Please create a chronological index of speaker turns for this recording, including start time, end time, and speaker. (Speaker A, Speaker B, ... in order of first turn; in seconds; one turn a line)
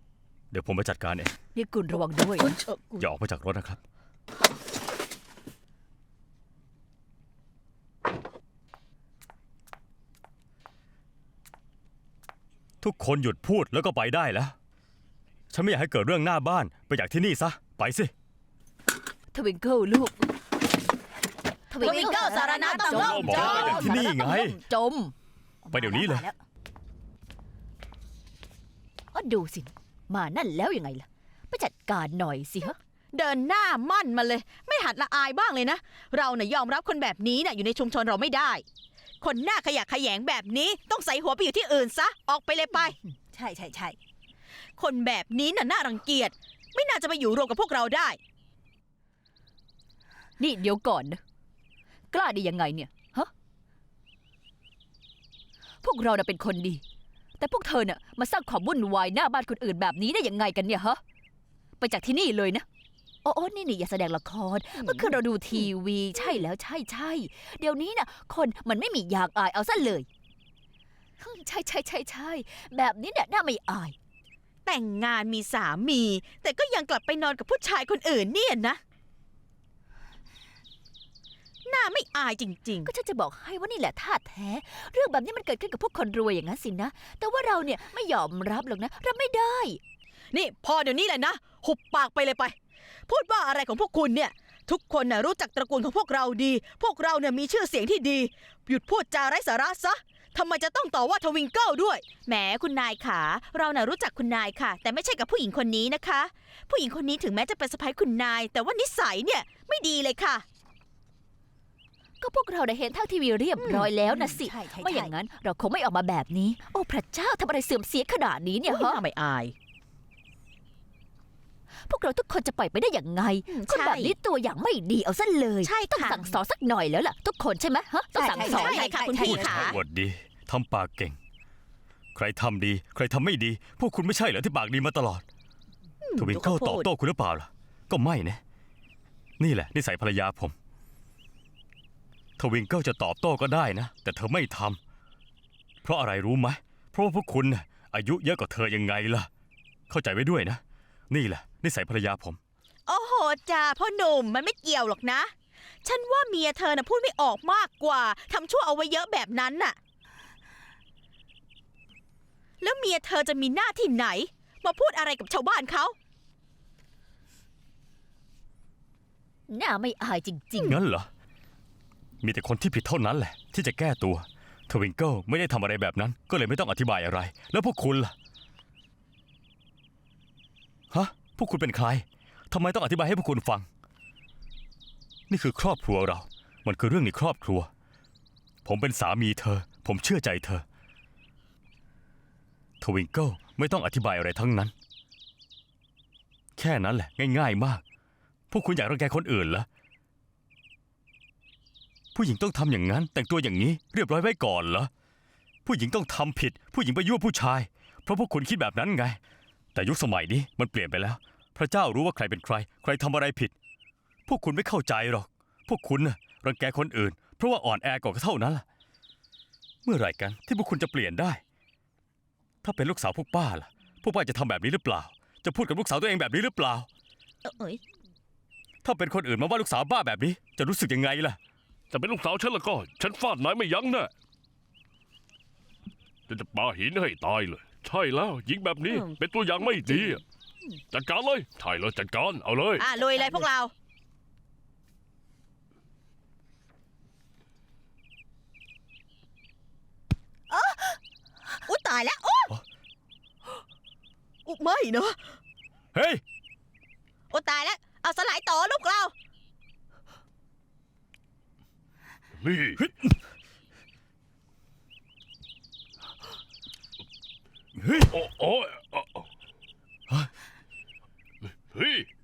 Speaker A: 0.5-1.3
Speaker B: 1.6-2.6
Speaker A: 3.0-3.8
Speaker A: 12.8-14.6
Speaker A: 15.5-18.1
Speaker B: 19.3-20.2
Speaker B: 21.7-25.1
Speaker C: 21.8-23.8
Speaker D: 22.2-22.9
Speaker E: 22.9-23.8
Speaker A: 23.1-24.6
Speaker D: 25.7-26.2
Speaker A: 25.7-26.3
Speaker B: 25.8-26.3
Speaker B: 29.1-32.8
Speaker C: 33.1-38.6
Speaker C: 39.2-43.0
Speaker D: 43.3-44.0
Speaker C: 44.8-48.2
Speaker B: 50.4-51.2
Speaker B: 52.1-53.3
Speaker B: 55.8-56.8
Speaker B: 57.4-61.0
Speaker B: 61.8-62.6
Speaker B: 63.2-70.1
Speaker C: 64.8-65.7
Speaker B: 71.2-74.0
Speaker C: 74.7-78.8
Speaker C: 81.7-82.9
Speaker B: 82.8-89.8
Speaker C: 90.3-92.5
Speaker C: 93.1-110.4
Speaker B: 112.2-119.0
Speaker C: 113.6-114.3
Speaker D: 114.4-115.1
Speaker C: 118.7-119.5
Speaker B: 121.9-128.8
Speaker C: 123.5-124.1
Speaker C: 125.6-126.4
Speaker D: 128.2-129.7
Speaker C: 128.4-129.8
Speaker A: 129.1-131.2
Speaker A: 132.2-135.2
Speaker A: 136.2-138.4
Speaker D: 136.3-136.7
Speaker A: 139.4-140.6
Speaker A: 142.4-144.8
Speaker A: 145.8-149.3
Speaker A: 149.9-152.4
Speaker C: 152.9-155.3
Speaker C: 155.8-159.8
Speaker C: 162.6-165.9
Speaker B: 169.5-170.8
Speaker A: 170.6-171.1
Speaker A: 172.2-178.1
Speaker A: 180.9-183.7
Speaker A: 185.3-187.7
Speaker A: 188.7-190.6
Speaker A: 192.8-194.7
Speaker A: 196.6-197.8
Speaker A: 198.5-199.7
Speaker A: 202.2-204.9
Speaker A: 205.7-209.2
Speaker A: 209.8-213.5
Speaker A: 214.3-218.7
Speaker A: 219.8-221.4
Speaker A: 222.6-226.9
Speaker C: 227.4-227.8
Speaker A: 228.8-231.4
Speaker E: 231.9-234.1
Speaker E: 236.3-240.2
Speaker E: 240.9-242.9
Speaker C: 242.8-243.7
Speaker C: 250.5-251.0
Speaker C: 251.7-252.5
Speaker C: 254.5-255.3
Speaker A: 255.9-256.2
Speaker C: 257.3-259.1
Speaker E: 262.4-262.9
Speaker E: 268.0-269.3
Speaker E: 271.7-272.1